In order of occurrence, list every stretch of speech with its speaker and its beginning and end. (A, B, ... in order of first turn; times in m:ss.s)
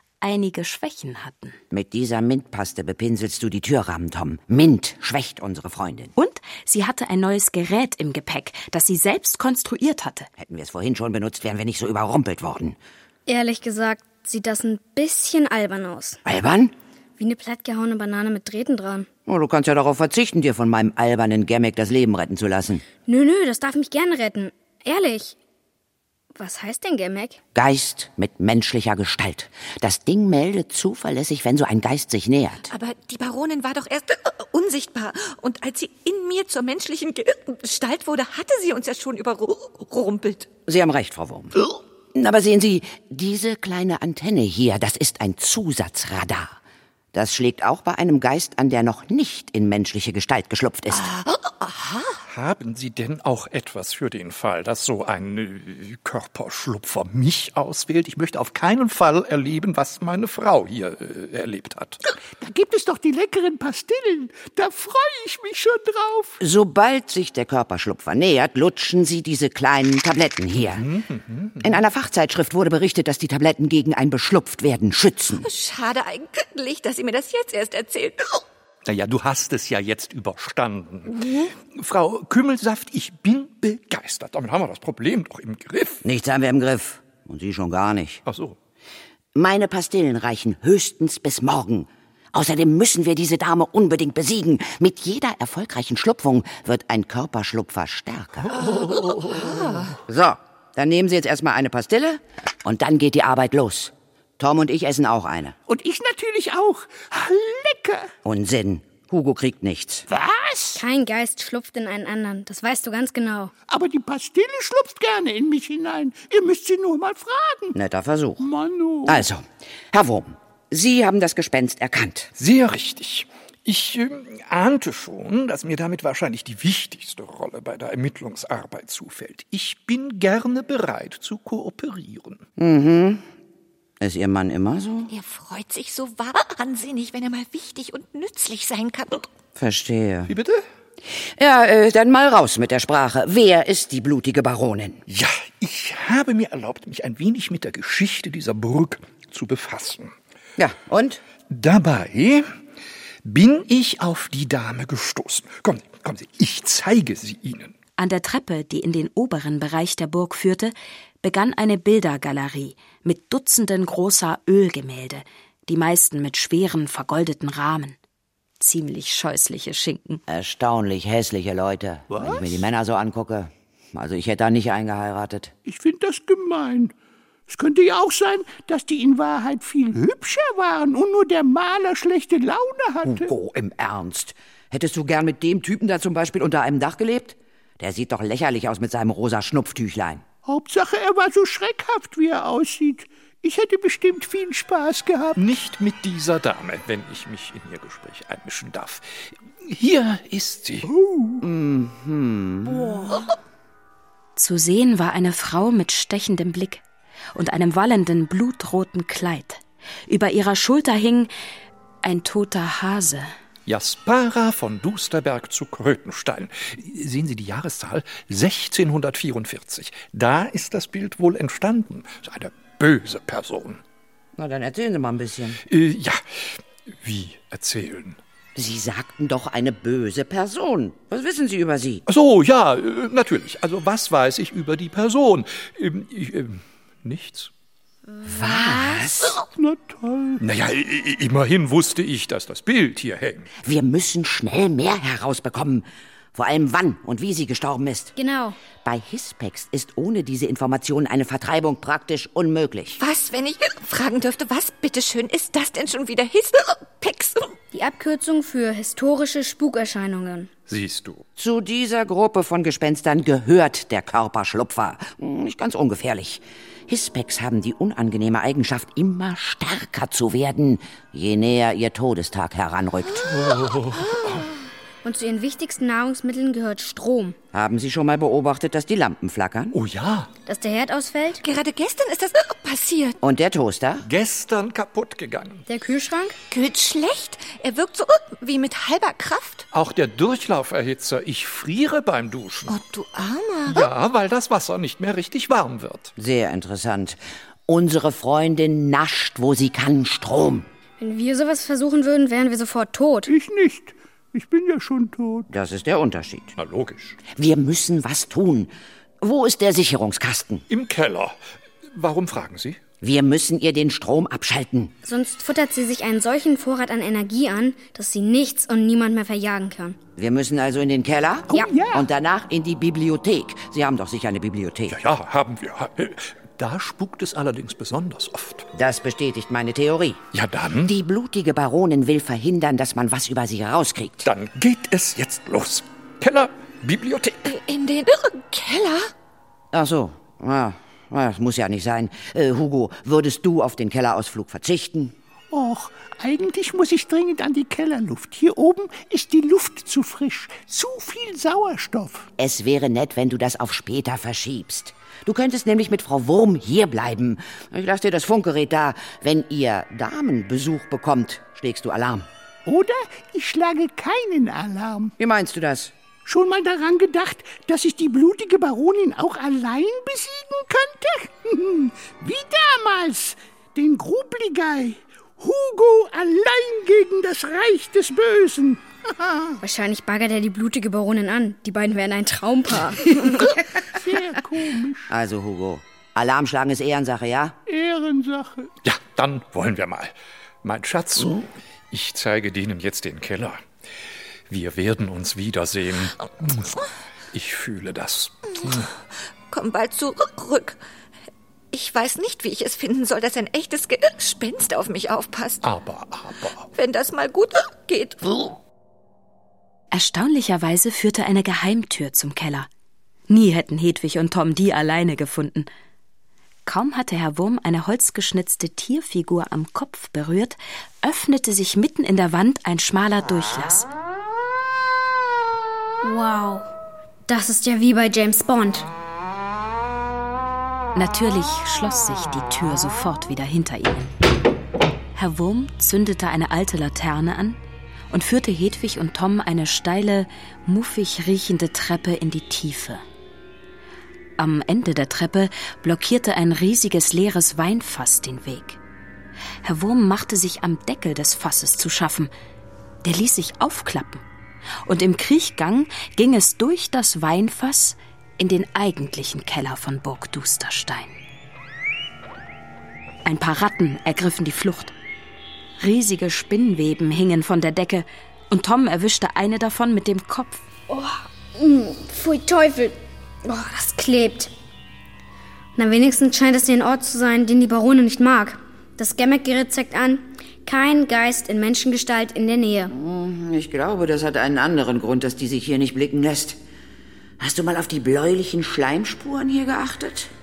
0:00.2-0:01.6 A
0:01.7-0:06.1 B
0:06.2-0:10.3 A
0:10.4-0:12.8 B
0:13.3-0:16.2 C
0:16.2-0:16.7 B
0:17.2-0:19.1 C
0:19.2-0:22.8 B
0:23.0-0:25.4 C
0:26.4-0:27.4 C
0:27.5-0:32.7 B
0:32.7-0:40.5 D
0:40.7-0:46.6 B
0:47.1-0:51.1 B
0:51.1-0:52.1 D
0:52.3-1:02.0 E
1:02.4-1:06.4 F
1:06.4-1:10.8 B
1:10.7-1:11.8 E
1:11.6-1:15.4 B
1:15.4-1:18.4 D
1:18.8-1:26.0 E
1:21.2-1:21.4 D
1:26.0-1:28.2 B
1:28.3-1:28.6 E
1:29.3-1:38.5 B
1:38.4-1:39.4 E
1:38.5-1:39.9 D
1:40.0-1:45.6 B
1:45.7-1:48.1 F
1:48.2-1:50.0 B
1:50.1-1:50.8 F
1:50.8-1:53.5 C
1:53.7-1:57.8 F
1:57.7-1:58.4 B
1:58.4-1:59.3 F
1:59.1-2:02.3 B
2:02.4-2:12.4 E
2:12.6-2:13.2 B
2:14.0-2:15.1 B
2:15.1-2:19.3 D
2:19.6-2:20.3 B
2:20.3-2:20.6 E
2:21.4-2:25.0 B
2:25.1-2:30.1 E
2:30.6-2:31.2 B
2:31.5-2:32.4 E
2:33.2-2:37.7 E
2:38.0-2:48.0 A
2:48.6-2:50.2 A
2:50.3-2:55.5 B
2:52.1-2:52.6 F
2:55.6-2:56.9 F
2:57.5-3:03.3 F
3:03.0-3:10.2 B
3:10.5-3:15.4 F
3:15.4-3:19.0 E
3:19.6-3:20.9 E
3:20.8-3:21.4 F
3:21.4-3:23.0 B
3:24.4-3:26.8 A
3:27.3-3:31.3 A
3:32.0-3:33.3 A
3:33.6-3:43.8 E
3:44.4-3:45.6 B
3:45.7-3:48.2 E
3:48.5-3:52.0 B
3:52.1-3:57.5 E
3:58.2-3:59.0 C
3:58.2-3:59.4 B
3:59.5-4:00.4 F
4:00.4-4:03.5 E
4:03.6-4:08.1 B
4:08.2-4:08.6 C
4:08.8-4:13.0 B
4:13.0-4:17.6 D
4:17.7-4:20.5 C
4:20.7-4:21.2 E
4:21.4-4:33.3 B
4:33.3-4:34.4 E
4:33.9-4:34.5 D
4:35.0-4:37.4 C
4:37.5-4:39.8 B
4:39.7-4:40.3 E
4:40.5-4:41.4 C
4:41.4-4:43.2 D
4:43.2-4:44.0 B
4:44.0-4:45.6 E
4:45.7-4:46.4 C
4:46.5-4:49.7 D
4:49.7-4:52.7 E
4:52.7-4:53.9 D
4:53.7-4:56.1 E
4:56.2-5:00.7 B
5:01.0-5:03.3 C
5:03.3-5:05.5 F
5:05.5-5:06.5 B
5:06.6-5:07.2 E
5:07.3-5:10.6 B
5:10.7-5:11.4 E
5:11.9-5:12.8 E
5:13.0-5:14.9 B
5:15.0-5:20.0 C
5:20.2-5:25.0 B
5:21.5-5:22.1 F
5:24.9-5:28.7 E
5:28.7-5:30.2 B
5:30.3-5:30.9 E
5:30.8-5:34.3 B
5:34.2-5:37.5 E
5:37.4-5:39.1 D
5:39.7-5:45.1 B
5:45.5-5:52.3 F
5:52.4-6:02.3 B
6:02.6-6:05.1 F
6:05.2-6:05.9 B
6:06.2-6:18.8 F
6:19.6-6:23.5 C
6:23.9-6:25.1 F
6:25.1-6:27.6 B
6:27.7-6:28.7 F
6:28.8-6:30.1 E
6:30.6-6:33.6 E
6:34.5-6:36.8 E
6:37.3-6:38.9 E
6:39.5-6:40.8 D
6:41.7-6:45.6 D
6:45.6-6:46.6 E
6:46.7-6:48.3 D
6:49.9-6:52.7 A
6:53.3-6:55.7 A
6:56.6-7:03.9 A
7:06.0-7:06.7 C
7:07.3-7:08.9 C
7:10.9-7:14.1 A
7:15.1-7:17.6 A
7:18.1-7:23.0 A
7:24.4-7:28.8 A
7:29.6-7:32.3 A
7:33.0-7:34.2 A
7:34.8-7:41.2 A
7:43.2-7:44.9 A
7:45.8-7:50.6 A
7:50.9-7:54.5 C
7:55.8-8:02.9 C
8:02.9-8:06.6 B
8:07.4-8:10.3 B